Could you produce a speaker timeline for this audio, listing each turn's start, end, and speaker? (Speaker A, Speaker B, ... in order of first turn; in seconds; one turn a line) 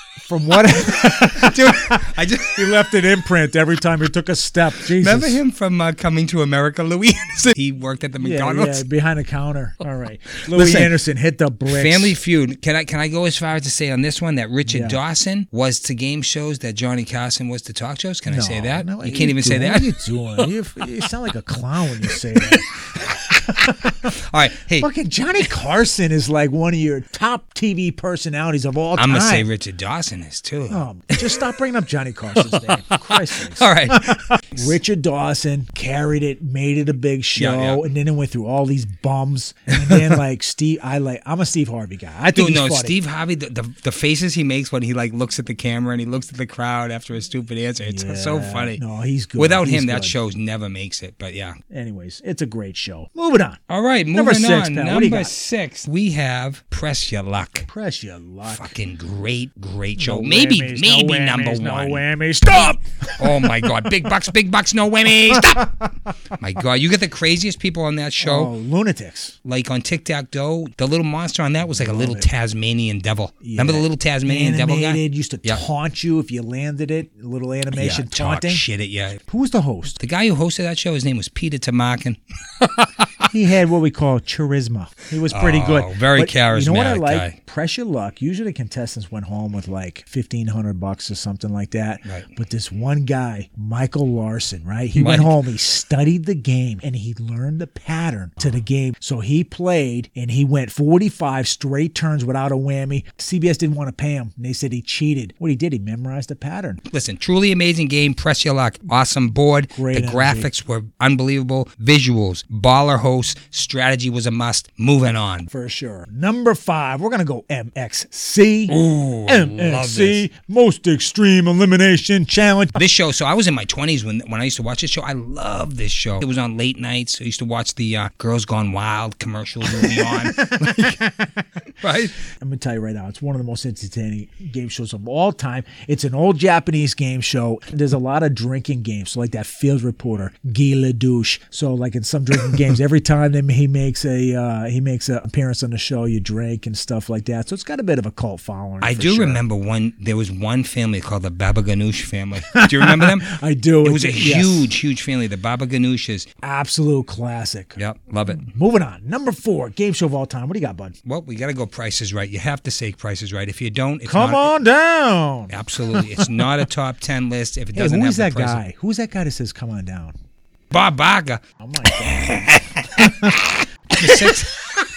Speaker A: 0.2-5.4
Speaker B: 0.6-2.9
Speaker B: 4.8-8.8
Speaker A: 8.2-12.2
Speaker B: 10.4-10.9
Speaker B: 11.7-20.5
Speaker A: 14.7-15.0
Speaker A: 18.3-24.2
Speaker B: 22.1-22.6
Speaker B: 23.6-24.9
Speaker A: 24.8-29.5
Speaker B: 29.0-31.4
Speaker A: 30.7-43.0
Speaker B: 32.4-34.8
Speaker B: 37.4-37.8
Speaker B: 39.7-40.2
Speaker B: 42.4-48.8
Speaker A: 47.8-50.2
Speaker B: 49.4-51.6
Speaker A: 51.7-53.6
Speaker B: 53.7-57.7
Speaker A: 54.1-55.3
Speaker A: 57.7-58.8
Speaker B: 58.5-68.5
Speaker A: 60.0-64.1
Speaker A: 65.3-65.9
Speaker A: 68.2-69.3
Speaker B: 69.5-75.6
Speaker A: 71.7-72.3
Speaker A: 73.4-78.6
Speaker B: 77.7-79.2
Speaker A: 79.2-80.0
Speaker B: 80.0-83.2
Speaker A: 83.2-106.8
Speaker B: 85.3-87.3
Speaker B: 95.0-95.4
Speaker B: 106.9-115.5
Speaker A: 109.7-110.5
Speaker A: 115.5-122.8
Speaker B: 118.7-120.3
Speaker B: 122.8-131.0
Speaker A: 129.6-131.4
Speaker B: 131.8-132.2
Speaker A: 132.2-149.4
Speaker B: 148.8-156.3
Speaker A: 152.4-154.7
Speaker A: 156.4-157.8
Speaker B: 157.8-158.5
Speaker A: 158.3-160.9
Speaker B: 161.1-164.5
Speaker A: 164.0-166.2
Speaker B: 165.5-168.6
Speaker A: 167.7-170.2
Speaker B: 170.7-171.4
Speaker A: 171.6-174.8
Speaker B: 172.0-174.6